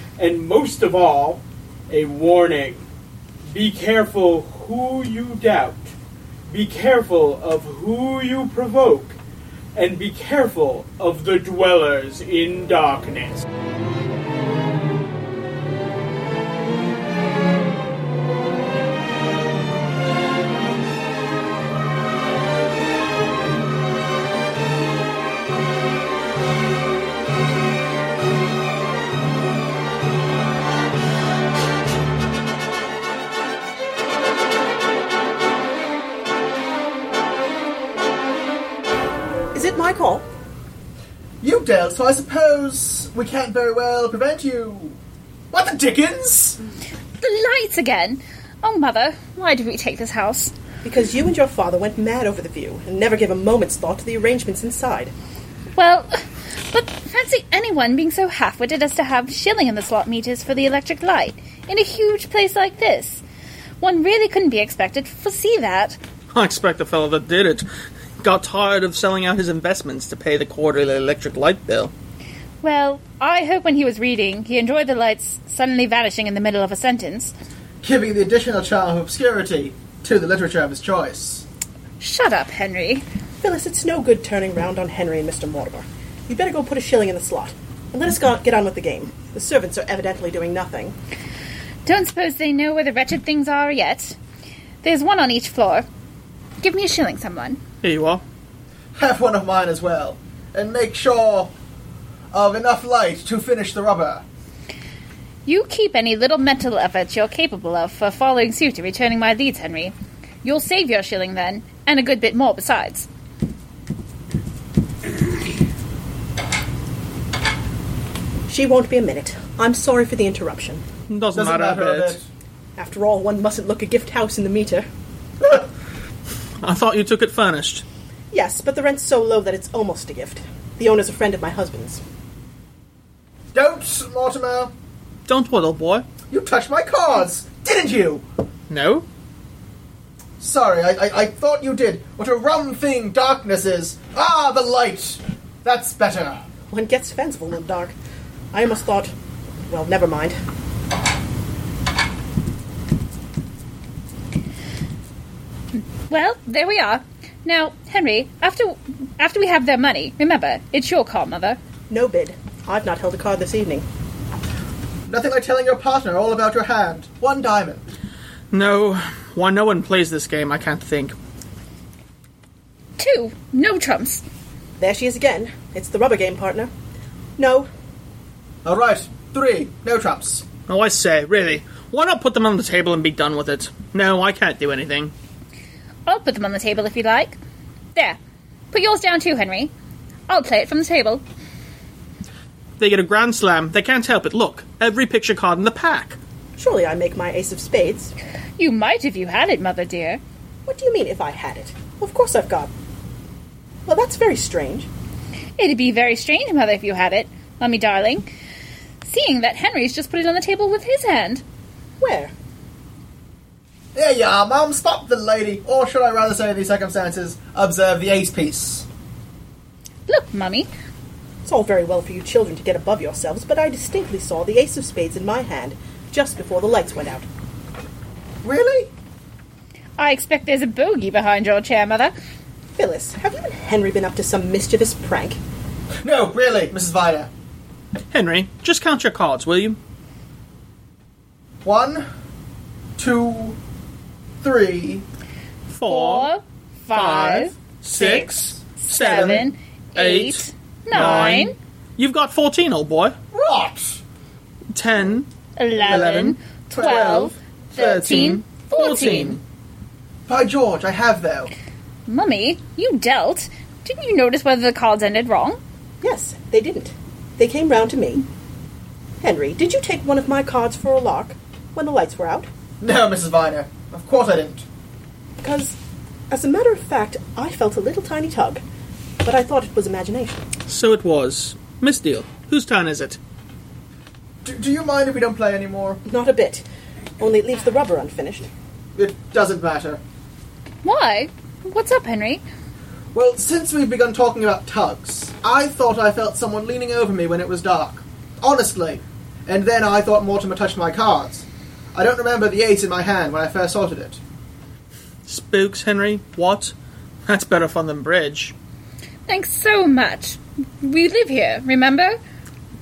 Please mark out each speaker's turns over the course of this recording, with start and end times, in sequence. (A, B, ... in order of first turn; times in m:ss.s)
0:00.2-0:02.8 A
0:03.5-0:06.0 A
0:06.5-0:09.2 A
0:09.8-0:13.5 A
0:39.5-0:40.2 B
0:41.4-0:45.0 C
0:45.5-0:46.6 C
0:47.2-0:50.5 D
0:50.8-0:55.1 B
0:55.8-1:03.2 D
1:03.8-1:06.0 D
1:06.3-1:07.6 E
1:08.2-1:11.9 E
1:12.6-1:17.3 D
1:17.8-1:21.4 C
1:22.0-1:23.0 D
1:23.4-1:31.0 B
1:31.8-1:34.2 D
1:34.8-1:35.9 D
1:36.6-1:37.6 D
1:37.8-1:38.2 E
1:39.0-1:41.5 C
1:42.3-1:44.2 C
1:45.5-1:53.1 D
1:58.5-2:00.8 B
2:01.1-2:02.2 E
2:01.3-2:02.3 C
2:02.8-2:04.9 B
2:06.6-2:07.8 E
2:08.3-2:12.0 B
2:13.5-2:14.7 C
2:15.3-2:16.1 E
2:16.3-2:18.2 C
2:18.7-2:19.1 E
2:20.4-2:26.4 C
2:26.7-2:28.0 B
2:28.5-2:29.1 B
2:29.7-2:30.4 B
2:35.8-2:41.6 D
2:41.9-2:43.8 B
2:45.1-2:47.8 C
2:48.5-2:51.2 E
2:53.0-2:54.2 D
2:54.8-2:56.7 B
2:57.4-2:57.7 B
2:58.6-3:00.4 C
3:00.7-3:05.1 E
3:06.1-3:07.4 D
3:08.7-3:09.7 D
3:10.3-3:11.2 D
3:12.8-3:16.2 E
3:16.6-3:18.1 B
3:18.6-3:20.2 D
3:20.7-3:22.7 B
3:23.9-3:24.9 B
3:25.6-3:28.3 D
3:29.0-3:31.4 D
3:32.0-3:32.3 B
3:34.0-3:38.9 C
3:40.1-3:40.7 D
3:41.4-3:47.3 B
3:48.4-3:48.9 C
3:50.0-3:52.1 D
3:52.8-3:55.4 B
3:56.0-3:57.3 C
3:58.1-3:59.8 E
4:01.6-4:02.1 C
4:03.0-4:03.6 C
4:04.4-4:05.0 C
4:05.7-4:06.3 E
4:05.8-4:11.6 D
4:06.9-4:13.2 E
4:09.0-4:09.4 C
4:10.9-4:11.3 C
4:13.3-4:14.0 C
4:14.7-4:16.4 E
4:15.6-4:19.4 D
4:15.8-4:16.2 C
4:16.7-4:17.4 C
4:17.7-4:19.4 E
4:20.3-4:21.5 C
4:22.1-4:25.6 D
4:26.0-4:28.2 B
4:29.2-4:32.5 B
4:32.8-4:34.6 C
4:35.4-4:35.8 B
4:36.3-4:38.6 B
4:39.2-4:40.4 B
4:40.7-4:43.2 E
4:44.4-4:46.0 C
4:46.0-4:46.6 B
4:47.2-4:48.5 B
4:49.0-4:50.0 C
4:50.8-4:52.4 D
4:53.1-5:04.2 C
5:05.3-5:06.7 E
5:07.3-5:08.5 E
5:09.3-5:12.2 D